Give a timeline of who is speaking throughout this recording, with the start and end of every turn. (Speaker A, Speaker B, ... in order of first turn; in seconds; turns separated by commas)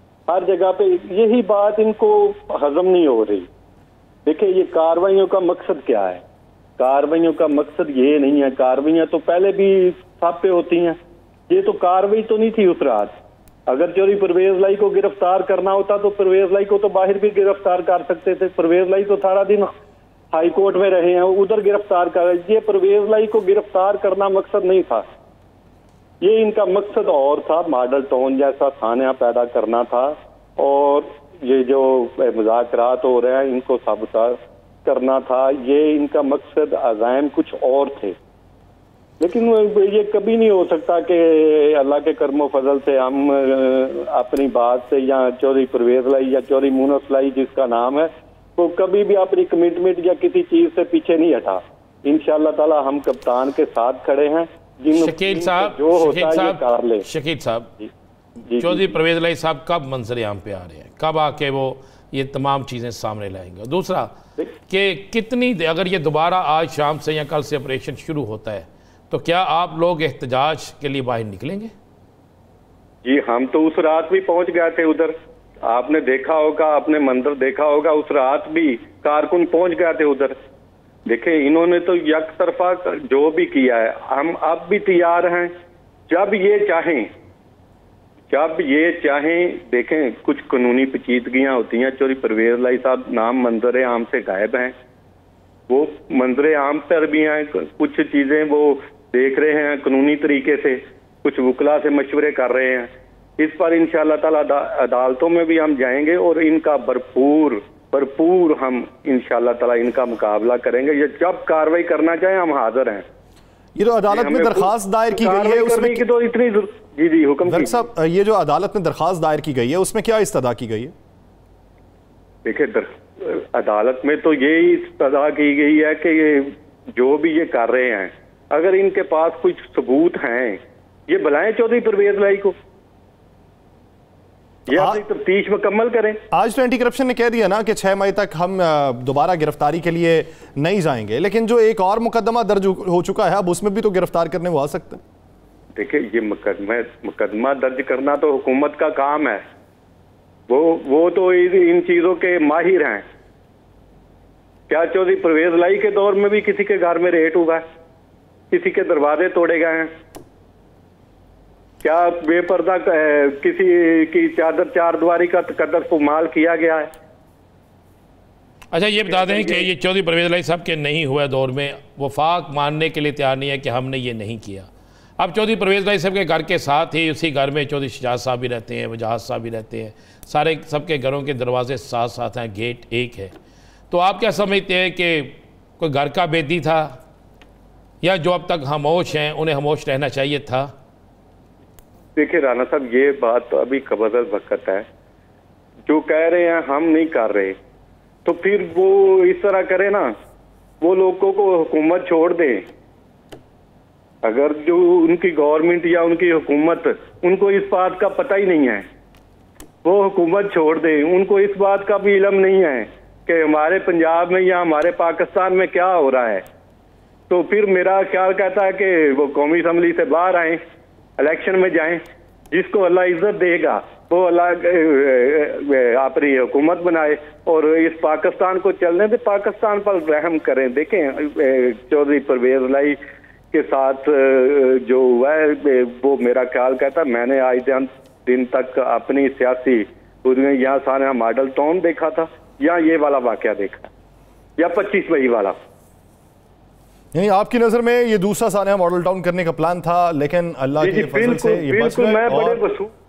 Speaker A: 0.3-3.5, Speaker A: 4.2-6.2, Speaker A: 6.8-11.0, Speaker A: 11.5-13.1, Speaker A: 13.7-19.7, Speaker A: 20.3-25.0, Speaker A: 26.2-38.1, Speaker A: 39.2-57.0, Speaker B: 54.9-57.7, Speaker A: 58.5-58.9, Speaker B: 58.5-64.1, Speaker B: 64.7-71.7, Speaker A: 73.0-75.1, Speaker A: 75.6-80.3, Speaker A: 81.0-85.5, Speaker A: 86.1-87.1, Speaker A: 88.3-94.7, Speaker A: 95.7-113.0, Speaker C: 113.8-116.0, Speaker A: 114.1-117.7, Speaker C: 117.4-120.9, Speaker A: 122.4-132.5, Speaker C: 134.7-135.0, Speaker A: 134.7-136.2, Speaker C: 136.3-145.0, Speaker A: 145.8-149.4, Speaker A: 150.5-153.0, Speaker A: 154.7-157.6, Speaker A: 158.5-159.9, Speaker A: 161.8-166.9, Speaker B: 168.7-183.3, Speaker A: 169.1-169.7, Speaker B: 183.9-187.0, Speaker B: 188.0-190.7, Speaker A: 192.2-194.8, Speaker A: 195.9-197.5, Speaker A: 198.2-200.1, Speaker A: 200.8-202.6, Speaker A: 204.2-208.8, Speaker A: 209.8-216.4, Speaker A: 217.3-220.6, Speaker A: 221.2-222.0, Speaker A: 222.5-233.0, Speaker A: 233.5-243.9, Speaker A: 244.6-245.5, Speaker C: 247.1-252.6, Speaker A: 250.8-252.9